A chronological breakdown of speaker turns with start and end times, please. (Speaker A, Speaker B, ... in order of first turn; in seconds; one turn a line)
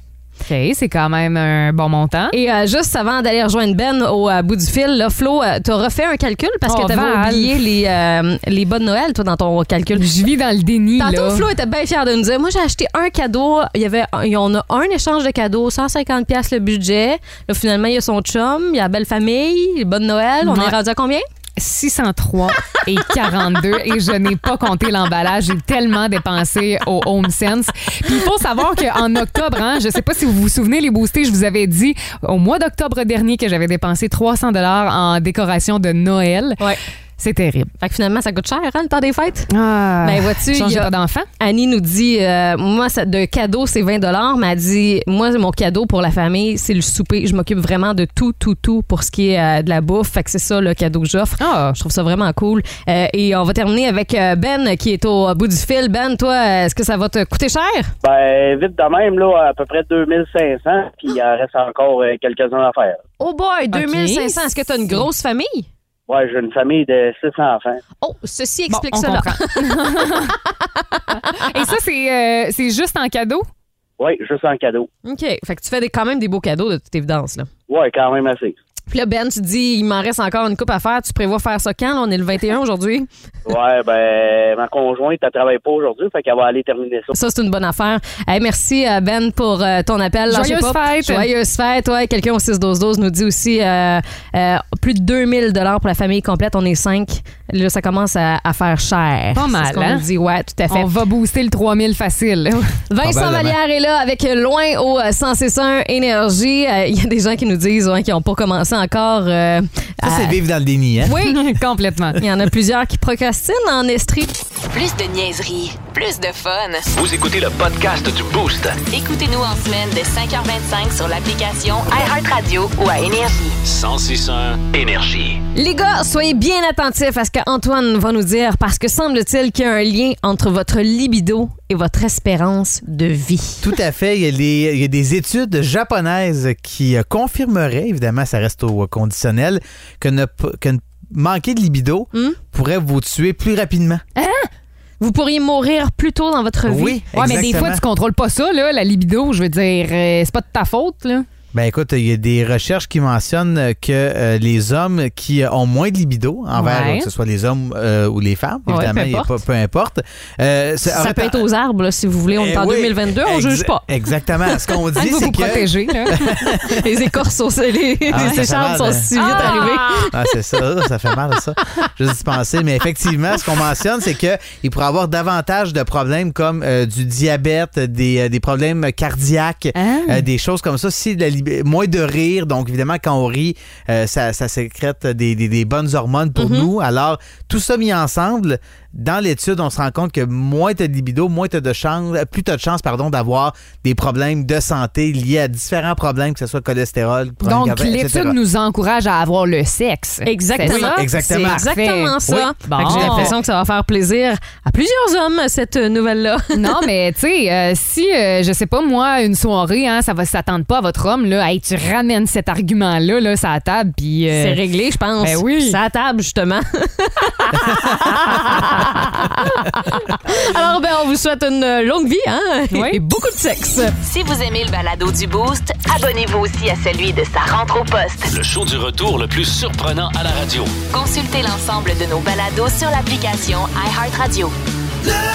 Speaker A: 0.5-2.4
Speaker B: 2.3-10.1
Speaker A: 6.7-7.6
Speaker A: 10.0-11.5
Speaker B: 11.0-21.3
Speaker A: 20.4-20.8
Speaker A: 21.6-36.6
Speaker A: 37.2-37.7
Speaker B: 37.8-39.5
Speaker A: 39.5-41.3
Speaker B: 40.0-57.9
Speaker A: 51.4-51.8
Speaker C: 58.0-63.0
Speaker B: 63.2-65.7
Speaker A: 63.7-65.0
Speaker C: 66.1-67.8
Speaker B: 68.0-71.4
Speaker A: 68.7-70.4
Speaker A: 71.4-73.5
Speaker C: 74.0-74.9
Speaker B: 75.0-77.5
Speaker C: 77.7-78.6
Speaker B: 78.9-83.1
Speaker C: 83.5-87.1
Speaker B: 87.1-100.9
Speaker A: 90.3-91.3
Speaker A: 99.3-100.0
Speaker A: 100.7-102.8
Speaker B: 102.9-110.4
Speaker D: 103.0-103.6
Speaker D: 110.0-111.2
Speaker B: 111.0-111.4
Speaker A: 111.2-112.2
Speaker B: 112.2-114.3
Speaker E: 114.7-116.9
Speaker F: 116.9-118.8
Speaker E: 118.9-123.6
Speaker F: 123.6-125.4
Speaker B: 125.5-133.7
Speaker D: 133.6-144.0
Speaker A: 144.2-144.5
Speaker B: 145.0-147.6
Speaker D: 146.7-147.8
Speaker A: 147.1-151.3
Speaker D: 151.5-161.5
Speaker A: 156.6-157.1
Speaker B: 158.7-159.3
Speaker B: 160.8-163.8
Speaker D: 162.3-166.8
Speaker A: 165.0-166.2
Speaker B: 166.2-170.2
Speaker D: 168.1-198.4
Speaker A: 168.1-168.4
Speaker A: 169.2-170.1
Speaker A: 179.8-180.3
Speaker B: 186.4-186.7
Speaker A: 197.4-203.3
Speaker B: 200.2-206.8
Speaker D: 200.6-201.7
Speaker D: 202.3-203.4
Speaker A: 206.5-214.6
Speaker B: 214.3-223.9
Speaker A: 215.2-215.8
Speaker A: 222.7-223.0
Speaker E: 224.0-228.3
Speaker F: 228.3-230.8
Speaker E: 230.9-234.5